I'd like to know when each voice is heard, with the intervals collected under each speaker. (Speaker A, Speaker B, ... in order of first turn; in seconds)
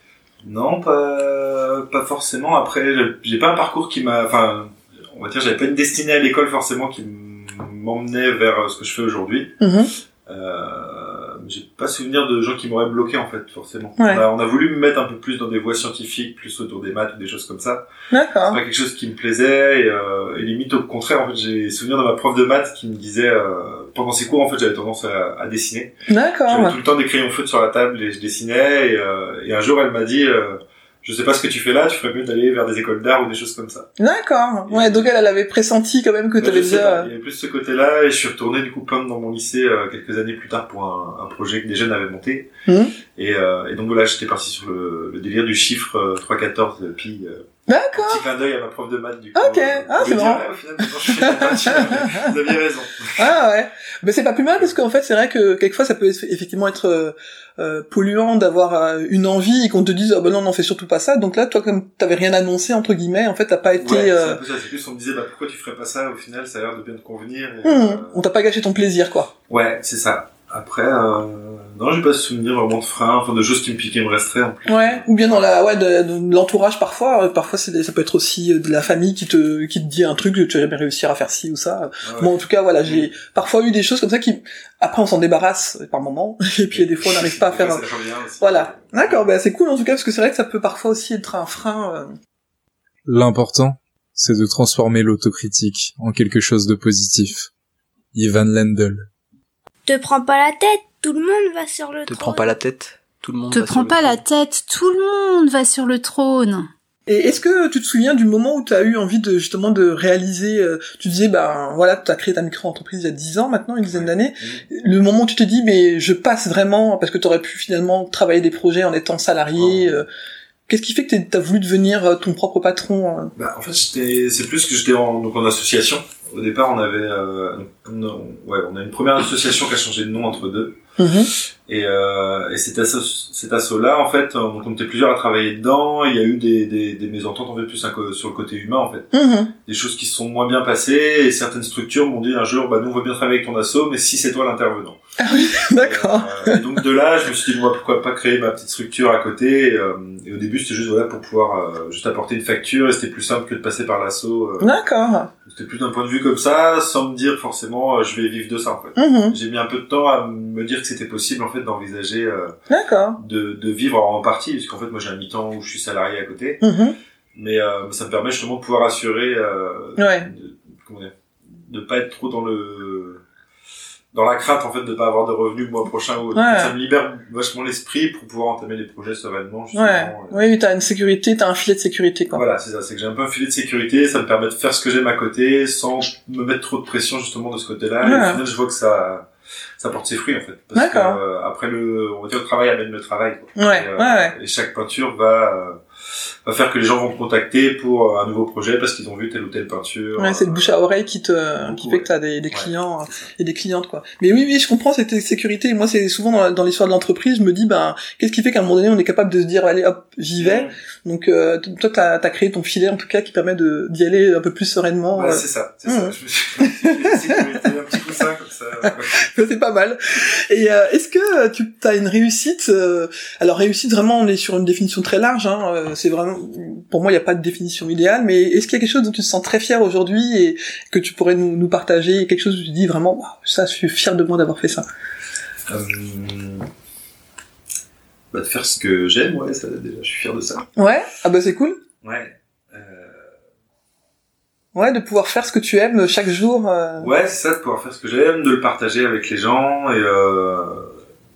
Speaker A: 0.4-9.6, 10.2-17.9, 18.4-25.9, 26.4-33.9, 34.7-35.1, 36.4-42.5, 43.1-53.4, 63.8-68.2, 69.5-75.5, 82.0-83.1, 86.7-89.3, 113.8-114.7, 119.5-120.0, 123.3-130.8, 131.7-145.0, 145.5-154.7, 155.4-162.6, 163.2-166.6, 167.3-173.2, 174.1-180.5, 182.3-195.8, 196.4-200.8, 201.6-203.3, 210.4-210.7, 215.1-219.2, 235.7-236.7, 238.3-240.7, 242.0-243.3, 247.0-250.9
Speaker B: 9.6-9.9, 14.0-14.2, 18.1-18.6, 26.1-26.8, 34.0-37.1, 42.7-42.9, 47.7-48.2, 49.3-52.3, 53.2-64.4, 67.6-69.3, 74.7-87.8, 88.4-92.1, 107.1-120.0, 120.7-123.3, 131.0-131.3, 139.1-139.5, 145.2-146.8, 154.6-155.3, 158.9-159.3, 162.7-163.2, 166.6-166.9, 170.0-170.3, 176.3-176.7, 179.7-182.4, 188.0-188.4, 190.7-191.2, 193.6-194.3, 200.2-217.5, 218.8-234.8, 240.8-241.8, 244.7-247.1
Speaker C: 93.0-97.5, 98.1-99.1
Speaker D: 100.0-102.3
Speaker E: 102.0-104.2
Speaker F: 103.5-106.7